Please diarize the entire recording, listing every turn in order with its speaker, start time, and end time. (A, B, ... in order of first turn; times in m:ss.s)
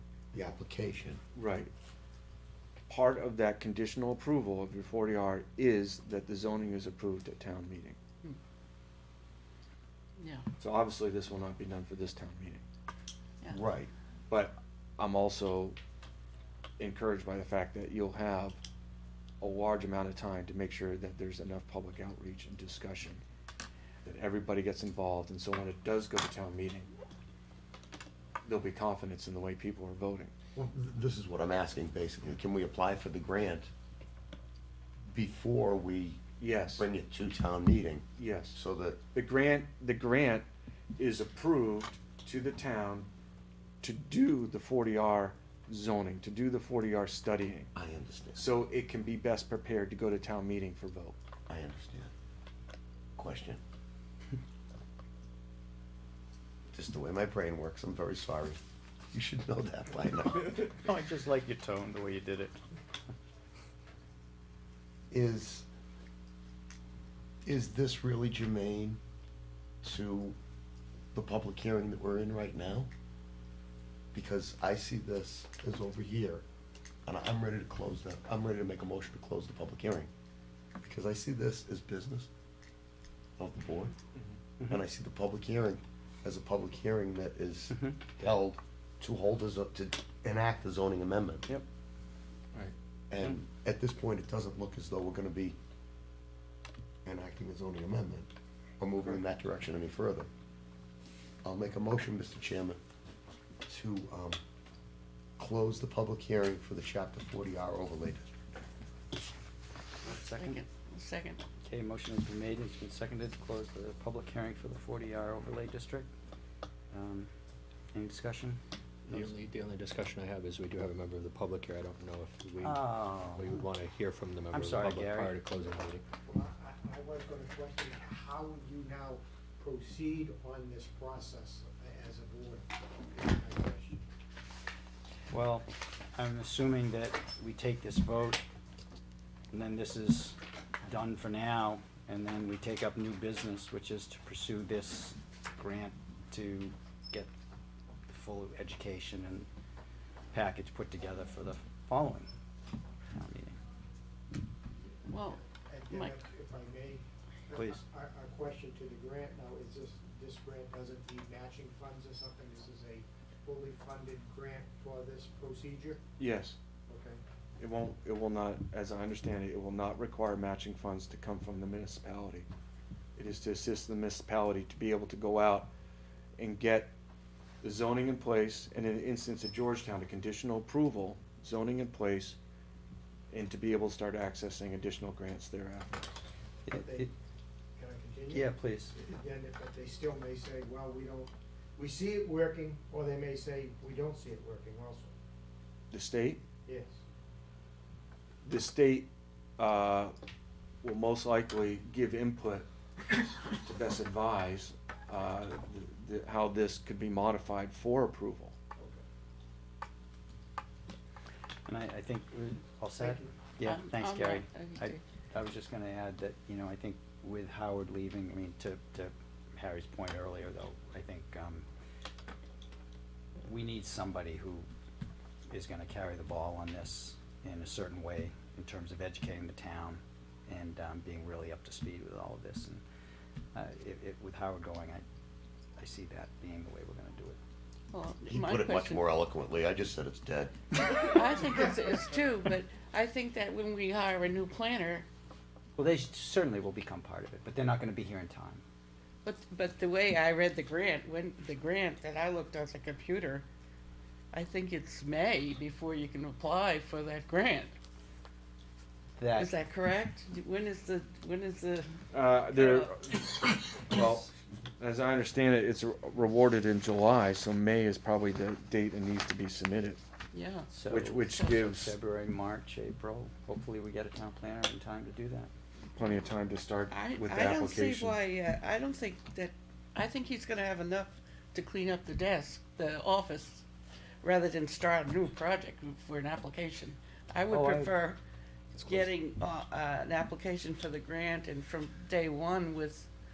0:00.3-0:01.2 A
0:01.4-0:01.7 B
0:02.9-0:08.0 B
0:10.2-0:10.5 C
0:10.6-0:12.6 B
0:13.5-0:13.9 A
0:14.3-0:15.8 B
0:16.8-0:18.6 B
0:19.4-0:23.2 B
0:24.0-0:26.9 B
0:28.4-0:30.3 B
0:30.6-0:33.7 A
0:35.1-0:36.2 A
0:36.4-0:36.8 B
0:36.8-0:39.0 A
0:38.2-0:38.6 B
0:39.1-0:43.1 B
0:43.8-0:47.7 B
0:47.8-0:48.5 A
0:48.4-0:51.2 B
0:51.5-0:52.1 A
0:53.2-0:53.6 A
0:56.7-0:58.6 A
0:59.1-1:00.5 A
1:00.4-1:02.6 D
1:05.1-1:05.7 A
1:07.4-1:09.0 A
1:09.8-1:10.4 A
1:11.1-1:12.9 A
1:14.1-1:16.4 A
1:17.1-1:20.1 A
1:20.8-1:22.3 A
1:23.4-1:23.9 A
1:24.7-1:31.5 A
1:27.7-1:28.0 D
1:33.1-1:35.6 A
1:37.0-1:40.3 A
1:41.4-1:42.8 A
1:43.7-1:44.4 A
1:45.4-1:48.3 A
1:50.0-1:50.6 D
1:50.2-1:51.4 C
1:51.6-1:56.1 D
1:56.9-1:57.3 D
1:57.9-1:58.6 D
1:59.1-2:06.0 E
2:02.6-2:03.6 D
2:04.5-2:05.4 D
2:06.2-2:14.0 F
2:15.3-2:18.4 D
2:19.5-2:27.3 D
2:28.1-2:29.5 D
2:30.3-2:32.3 D
2:33.1-2:33.6 D
2:35.1-2:36.2 C
2:35.4-2:46.0 F
2:37.6-2:37.8 D
2:46.2-2:46.6 B
2:46.9-2:47.2 F
2:47.6-2:52.5 B
2:53.2-2:55.7 B
2:56.4-2:56.9 B
2:57.6-3:02.4 B
3:03.3-3:06.2 B
3:06.7-3:07.1 D
3:06.7-3:07.1 F
3:07.8-3:15.1 F
3:08.3-3:08.9 D
3:15.9-3:16.4 B
3:16.7-3:17.0 F
3:18.4-3:20.1 B
3:20.8-3:22.7 B
3:23.5-3:28.6 B
3:31.7-3:41.6 D
3:33.0-3:33.4 F
3:33.6-3:35.0 C
3:43.4-3:44.7 D
3:45.5-3:52.8 D
3:53.5-3:55.0 D
3:55.8-3:57.4 D
3:57.9-3:59.0 C
3:58.3-4:00.5 A
4:01.0-4:05.1 C
4:05.8-4:08.6 D
4:09.2-4:13.5 C
4:14.3-4:17.7 C
4:19.2-4:19.5 D
4:19.3-4:23.2 C
4:22.1-4:30.0 B
4:30.3-4:31.6 C
4:30.7-4:35.5 D
4:30.9-4:31.9 B
4:36.0-4:38.2 B
4:36.9-4:43.6 C
4:44.2-4:48.2 C
4:47.5-4:47.9 D
4:48.8-4:53.1 C